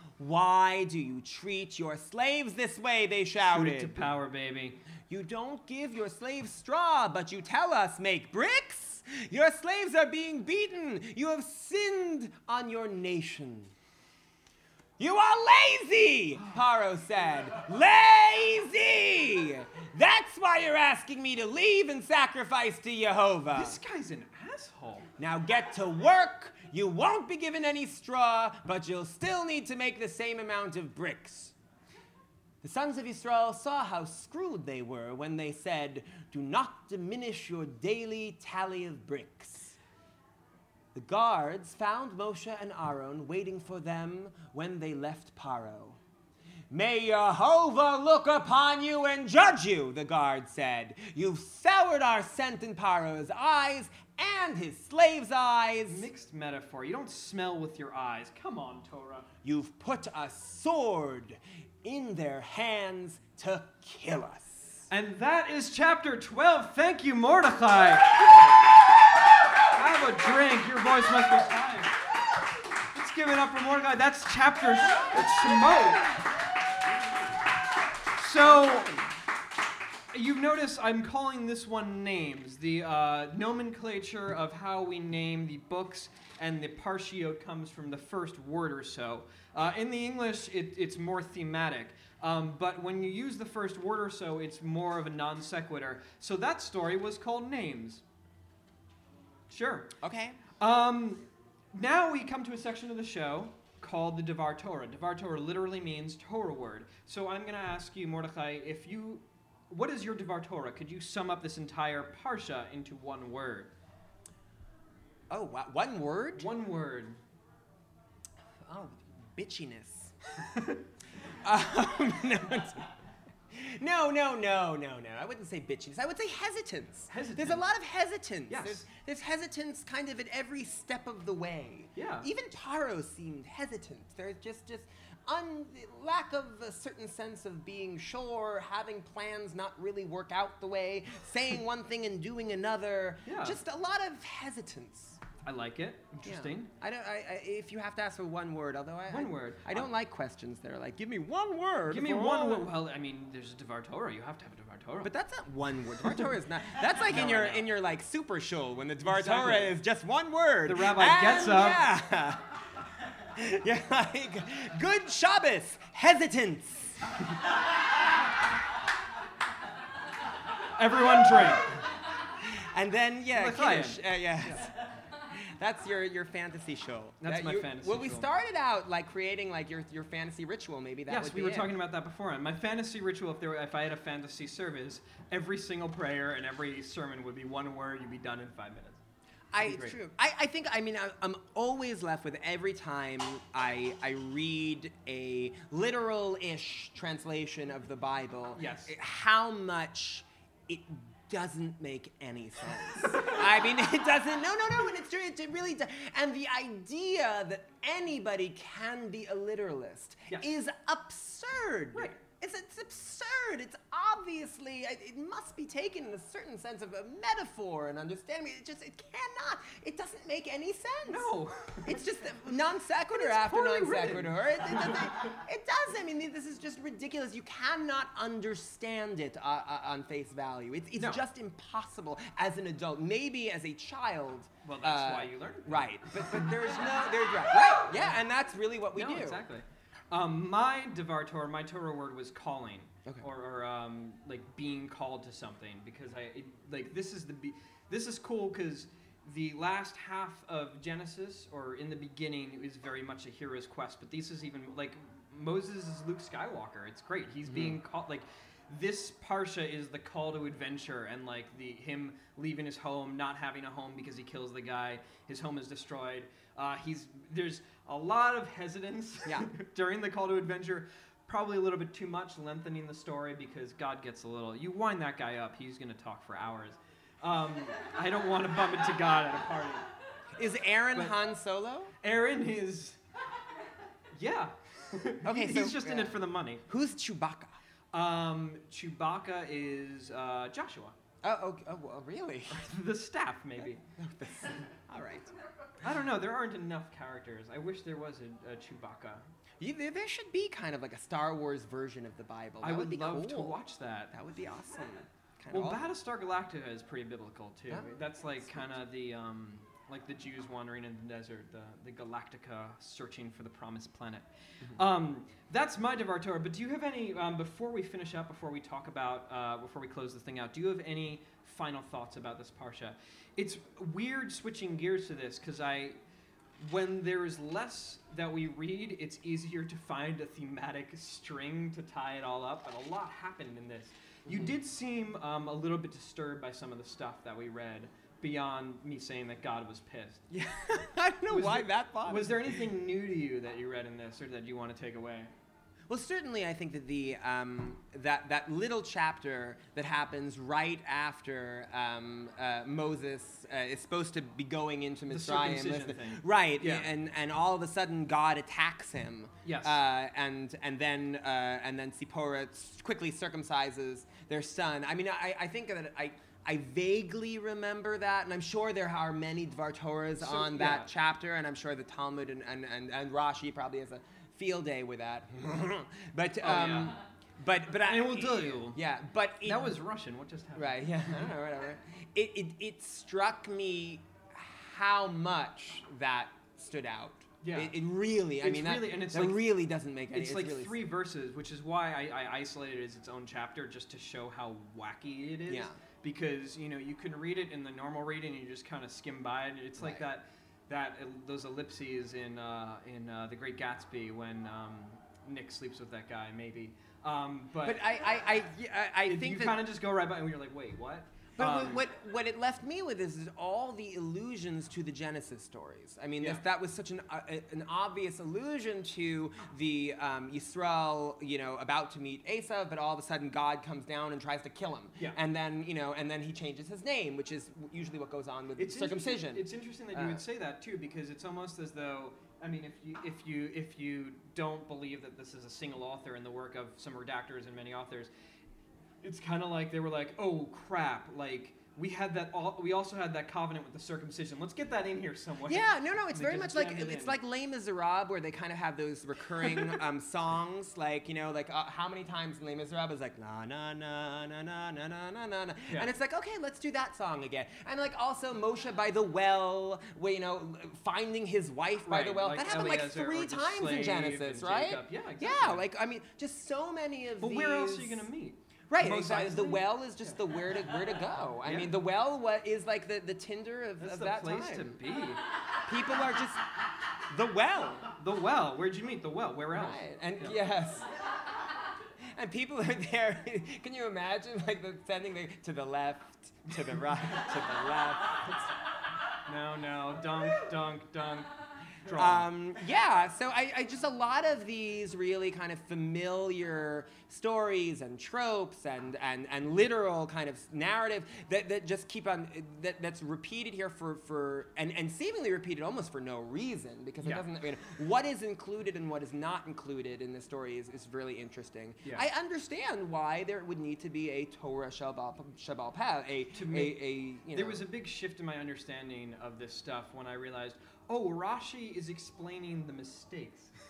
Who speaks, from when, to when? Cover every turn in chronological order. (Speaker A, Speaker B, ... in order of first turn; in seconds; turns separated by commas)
Speaker A: 0.2-4.1, Speaker B: 3.4-4.8, Speaker A: 5.1-13.7, Speaker A: 15.0-23.8, Speaker B: 23.5-25.1, Speaker A: 25.2-31.5, Speaker A: 32.6-39.8, Speaker A: 40.9-46.0, Speaker A: 46.7-56.1, Speaker B: 55.9-59.2, Speaker A: 59.4-64.9, Speaker B: 64.9-68.2, Speaker B: 69.7-72.0, Speaker B: 72.9-76.1, Speaker A: 74.9-75.5, Speaker B: 78.2-78.9, Speaker A: 78.4-79.1, Speaker B: 80.1-98.0, Speaker B: 99.5-99.9, Speaker A: 100.0-100.4, Speaker B: 100.6-113.7, Speaker A: 115.3-116.5, Speaker B: 116.4-117.2, Speaker A: 118.6-120.1, Speaker B: 120.4-120.8, Speaker A: 121.4-122.9, Speaker A: 123.5-145.2, Speaker B: 127.1-127.7, Speaker B: 128.5-128.8, Speaker B: 131.9-132.3, Speaker B: 143.2-143.6, Speaker B: 145.4-146.7, Speaker A: 146.2-152.7, Speaker B: 149.1-149.9, Speaker B: 151.9-155.1, Speaker A: 155.0-162.4, Speaker B: 156.0-157.7, Speaker B: 159.0-159.8, Speaker B: 160.7-161.8, Speaker A: 163.3-167.0, Speaker B: 170.8-171.8, Speaker A: 172.3-174.8, Speaker B: 173.3-174.0, Speaker A: 175.3-181.7, Speaker B: 177.2-178.3, Speaker B: 181.1-189.0, Speaker A: 189.5-221.3, Speaker B: 189.6-189.9, Speaker B: 198.6-198.9, Speaker B: 221.1-222.0, Speaker A: 221.8-239.4, Speaker B: 223.1-225.1, Speaker B: 234.6-236.6, Speaker B: 238.9-279.9, Speaker A: 257.5-257.8, Speaker A: 280.4-281.9, Speaker B: 282.0-283.0, Speaker B: 284.2-286.6, Speaker A: 285.2-287.6, Speaker B: 287.9-290.9, Speaker A: 291.2-292.7, Speaker B: 292.5-293.8, Speaker A: 293.6-295.4, Speaker B: 295.8-299.2, Speaker A: 299.6-303.6, Speaker B: 302.6-304.1, Speaker A: 304.1-305.8, Speaker B: 305.5-326.0, Speaker A: 307.7-308.8, Speaker B: 326.6-340.2, Speaker A: 334.2-334.6, Speaker A: 340.3-342.7, Speaker B: 341.3-345.3, Speaker A: 345.9-379.8, Speaker B: 355.1-356.9, Speaker B: 359.4-359.8, Speaker B: 370.2-370.9, Speaker B: 376.4-377.0, Speaker B: 377.9-378.8, Speaker B: 379.4-381.3, Speaker A: 380.6-390.8, Speaker B: 387.4-387.8, Speaker B: 388.4-389.4, Speaker B: 390.1-407.8, Speaker A: 395.5-395.8, Speaker A: 399.8-400.1, Speaker A: 407.6-409.6, Speaker B: 409.1-411.8, Speaker A: 411.4-430.2, Speaker B: 428.6-438.1, Speaker B: 439.0-447.2, Speaker A: 445.4-468.1, Speaker B: 449.4-449.8, Speaker B: 461.9-465.7, Speaker B: 467.2-470.2, Speaker A: 468.7-474.8, Speaker B: 471.4-471.8, Speaker B: 473.8-475.2, Speaker A: 475.6-476.4, Speaker A: 477.1-477.9, Speaker B: 478.0-480.4, Speaker A: 479.5-480.9, Speaker A: 482.1-488.5, Speaker B: 489.2-491.3, Speaker B: 491.8-492.3, Speaker A: 491.9-517.6, Speaker B: 516.3-523.5